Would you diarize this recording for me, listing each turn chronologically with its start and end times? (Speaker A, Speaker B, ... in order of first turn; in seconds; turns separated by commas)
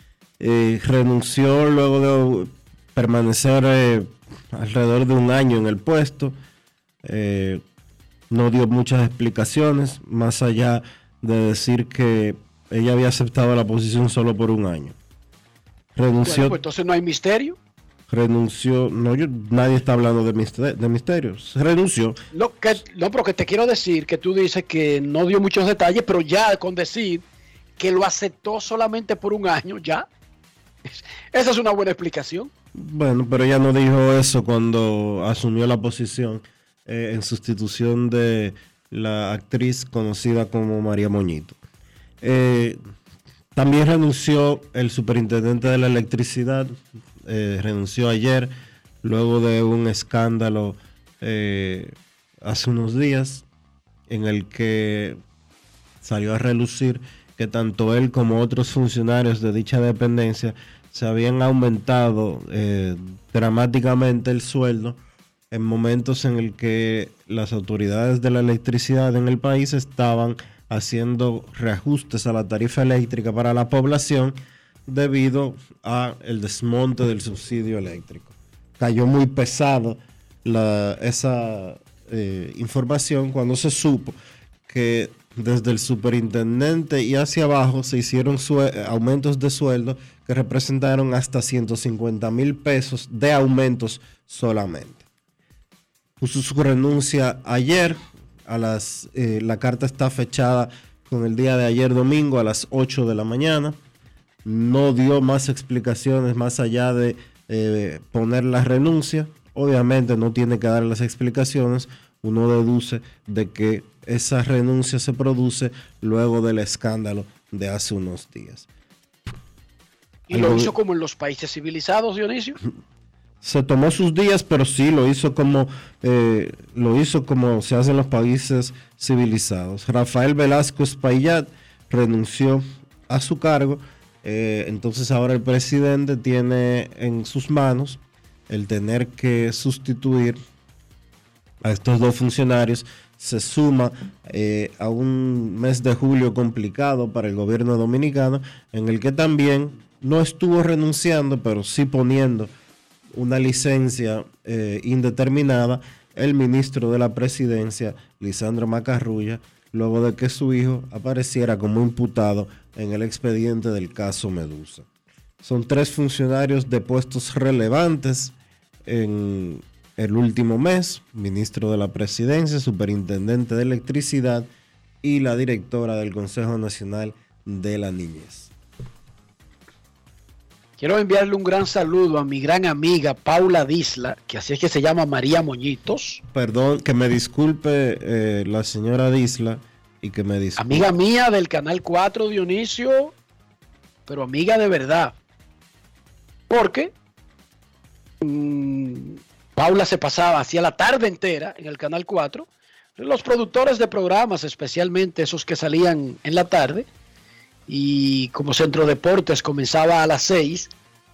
Speaker A: 0.4-6.3, Speaker A: 7.0-7.6, Speaker A: 8.3-14.9, Speaker A: 15.9-16.6, Speaker B: 16.2-17.6, Speaker A: 18.1-22.2, Speaker B: 22.3-27.2, Speaker B: 27.8-30.1, Speaker B: 30.9-32.5, Speaker A: 32.7-41.6, Speaker A: 42.2-42.8, Speaker A: 43.5-53.4, Speaker A: 54.1-55.2, Speaker A: 56.0-65.0, Speaker A: 65.5-84.2, Speaker A: 84.7-95.0, Speaker A: 96.2-103.8, Speaker A: 104.4-118.7, Speaker B: 120.3-122.6, Speaker A: 120.3-120.7, Speaker A: 123.4-140.4, Speaker A: 141.6-152.5, Speaker A: 153.1-164.9, Speaker A: 165.4-168.3, Speaker A: 168.8-174.5, Speaker A: 175.0-178.5, Speaker B: 180.8-186.2, Speaker A: 186.3-190.9, Speaker B: 190.6-193.1, Speaker B: 194.1-195.1, Speaker B: 196.5-196.9, Speaker B: 198.2-206.9, Speaker B: 207.7-210.7